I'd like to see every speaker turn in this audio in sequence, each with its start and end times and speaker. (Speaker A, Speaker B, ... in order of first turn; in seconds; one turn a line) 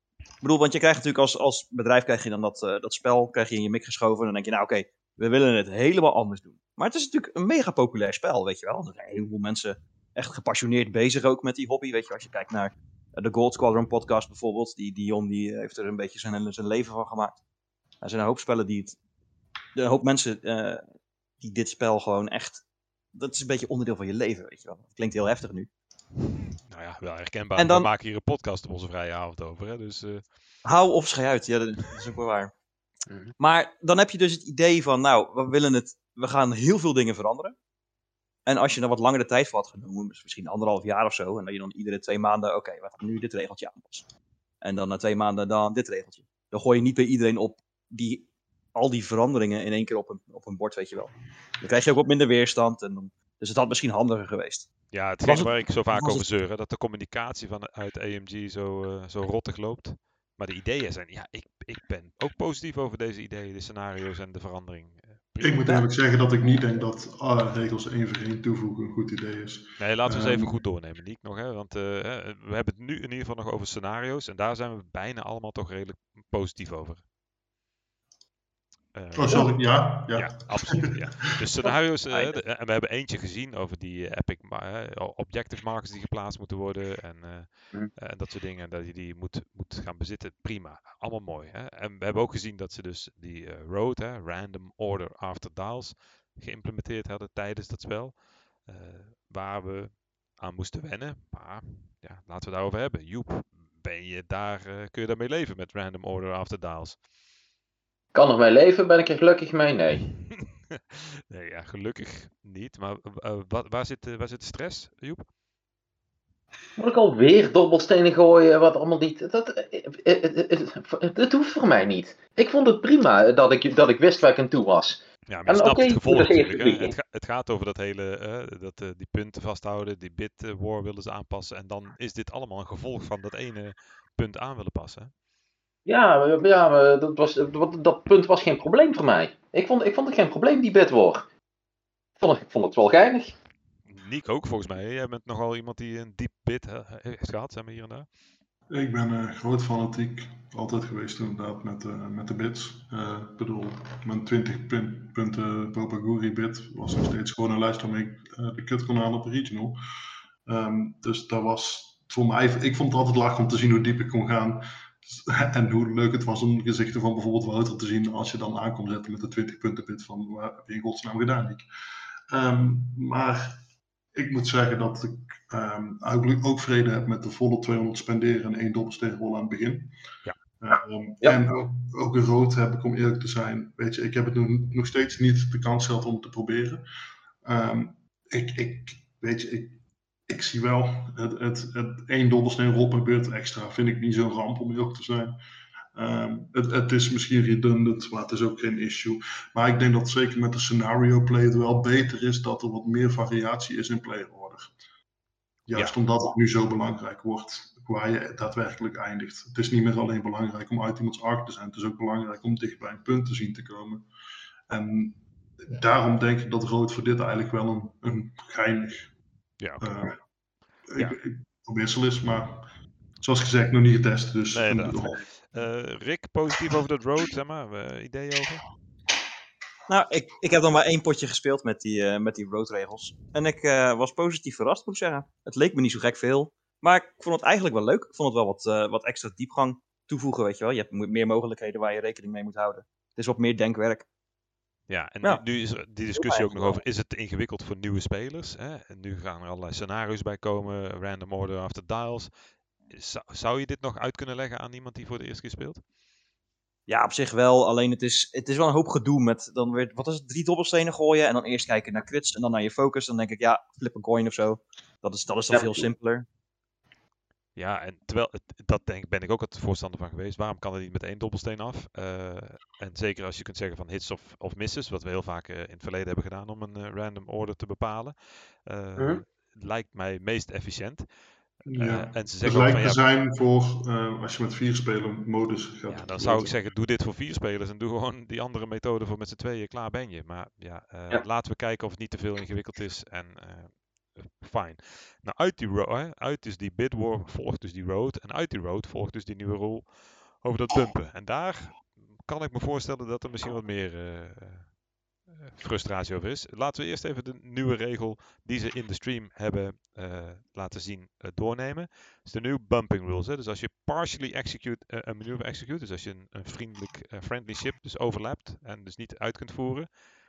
Speaker A: 0.4-17.4
Speaker A: 18.0-19.0
Speaker A: 19.7-20.8
Speaker A: 21.4-22.6
Speaker A: 23.1-25.7
Speaker B: 26.7-30.2
Speaker A: 27.6-27.9
Speaker A: 30.6-32.5
Speaker C: 33.1-33.3
Speaker A: 33.4-37.5
Speaker A: 38.5-44.1
Speaker A: 44.6-54.7
Speaker B: 54.9-65.8
Speaker A: 55.2-56.2
Speaker D: 65.4-70.5
Speaker B: 69.8-77.0
Speaker B: 78.9-107.0
Speaker D: 79.2-81.0
Speaker C: 81.6-82.4
Speaker C: 108.1-110.0
Speaker B: 110.7-115.2
Speaker C: 116.8-126.9
Speaker B: 125.3-135.1
Speaker C: 135.8-141.2
Speaker C: 142.2-143.3
Speaker B: 143.9-148.1
Speaker D: 148.7-159.8
Speaker D: 160.4-171.7
Speaker D: 172.3-173.6
Speaker D: 174.1-179.9
Speaker D: 180.6-186.8
Speaker D: 187.4-195.4
Speaker D: 195.9-204.7
Speaker D: 205.7-214.1
Speaker D: 214.7-219.1
Speaker B: 219.6-219.9
Speaker D: 219.8-220.2
Speaker D: 220.9-225.2
Speaker B: 224.5-228.6
Speaker A: 229.9-244.1
Speaker B: 244.9-252.3
Speaker A: 246.1-246.8
Speaker B: 252.9-255.8
Speaker A: 256.9-266.2
Speaker C: 265.5-265.9
Speaker B: 267.6-281.1
Speaker D: 281.6-286.5
Speaker B: 281.7-283.0
Speaker B: 285.9-304.8
Speaker B: 305.4-319.9